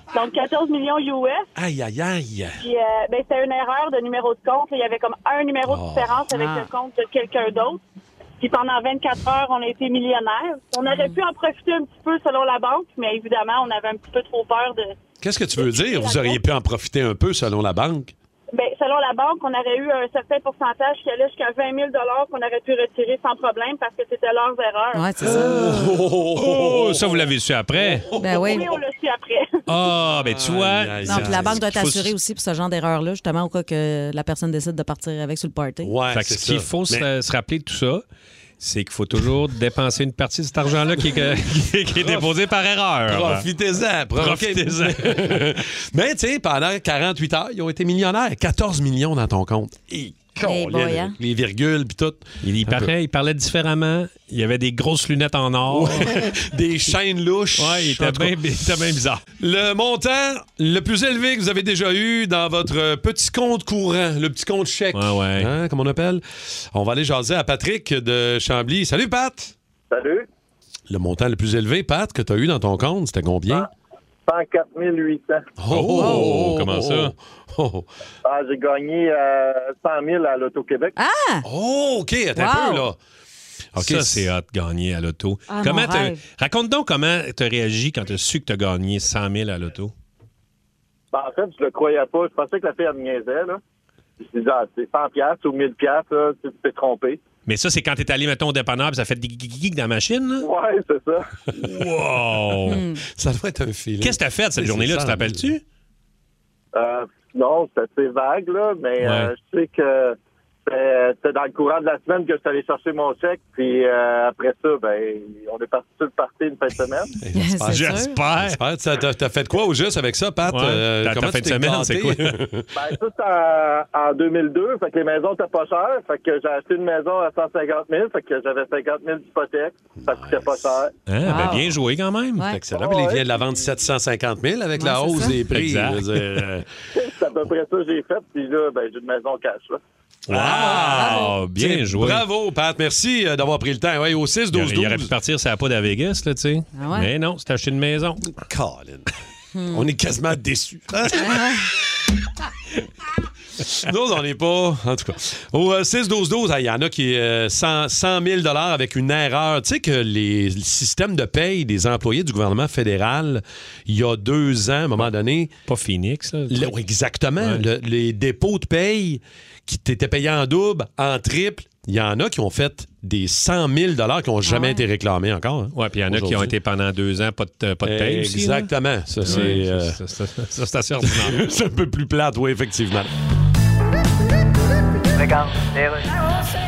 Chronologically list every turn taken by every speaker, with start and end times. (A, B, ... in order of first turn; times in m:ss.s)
0:00.1-0:01.5 A
0:01.5-0:02.6 B
0:02.6-0:07.8 A
0:05.6-0:06.2 B
0:06.3-0:06.7 C
0:08.4-0:14.9 A
0:15.2-0:18.1 B
0:15.6-0:16.4 A
0:18.5-0:25.1 A
0:24.9-0:25.8 C
0:25.2-0:28.4 B
0:25.3-0:28.1 D
0:28.2-0:28.6 C
0:28.2-0:29.6 A
0:29.7-0:32.1 D
0:30.2-0:31.6 B
0:31.0-0:35.9 C
0:35.8-0:37.1 B
0:36.1-0:38.0 D
0:38.6-0:43.5 D
0:41.0-0:41.2 B
0:41.9-0:42.3 B
0:43.1-0:52.9 B
0:44.2-0:45.5 D
0:50.4-0:51.2 C
0:52.4-0:56.1 D
0:55.7-0:58.4 B
0:57.6-0:59.2 D
0:59.4-1:09.5 B
1:04.9-1:05.5 D
1:09.9-1:10.3 E
1:10.9-1:13.7 B
1:14.3-1:15.4 E
1:15.6-1:17.8 B
1:15.7-1:17.1 D
1:16.0-1:16.3 C
1:18.2-1:20.9 E
1:21.0-1:21.4 C
1:21.4-1:23.0 B
1:22.3-1:22.9 C
1:23.7-1:24.3 B
1:23.8-1:29.9 D
1:25.5-1:26.2 C
1:31.1-1:33.6 E
1:34.2-1:37.2 E
1:37.4-1:40.5 D
1:40.4-1:41.2 E
1:41.5-1:42.8 D
1:42.6-1:43.0 C
1:43.2-1:45.5 B
1:44.0-1:45.6 D
1:46.7-1:57.1 E
1:49.0-1:49.3 D
1:57.2-2:02.7 B
1:57.3-1:58.2 C
1:57.6-1:58.6 D
2:00.5-2:02.4 D
2:02.7-2:10.9 E
2:10.0-2:10.7 B
2:11.1-2:12.4 D
2:11.2-2:11.8 C
2:12.5-2:16.7 B
2:12.7-2:13.2 E
2:14.8-2:15.4 C
2:15.5-2:16.4 D
2:16.9-2:19.8 E
2:20.3-2:22.2 D
2:20.3-2:25.1 B
2:20.6-2:21.3 C
2:24.5-2:28.3 D
2:26.7-2:27.1 C
2:28.4-2:29.1 B
2:29.5-2:29.9 C
2:29.7-2:31.5 B
2:31.2-2:31.7 C
2:33.6-2:45.5 B
2:45.7-2:46.7 D
2:46.5-2:56.5 B
2:47.4-2:47.6 D
2:54.4-2:54.8 C
2:55.7-3:01.4 D
2:57.8-3:00.0 B
3:01.0-3:03.1 B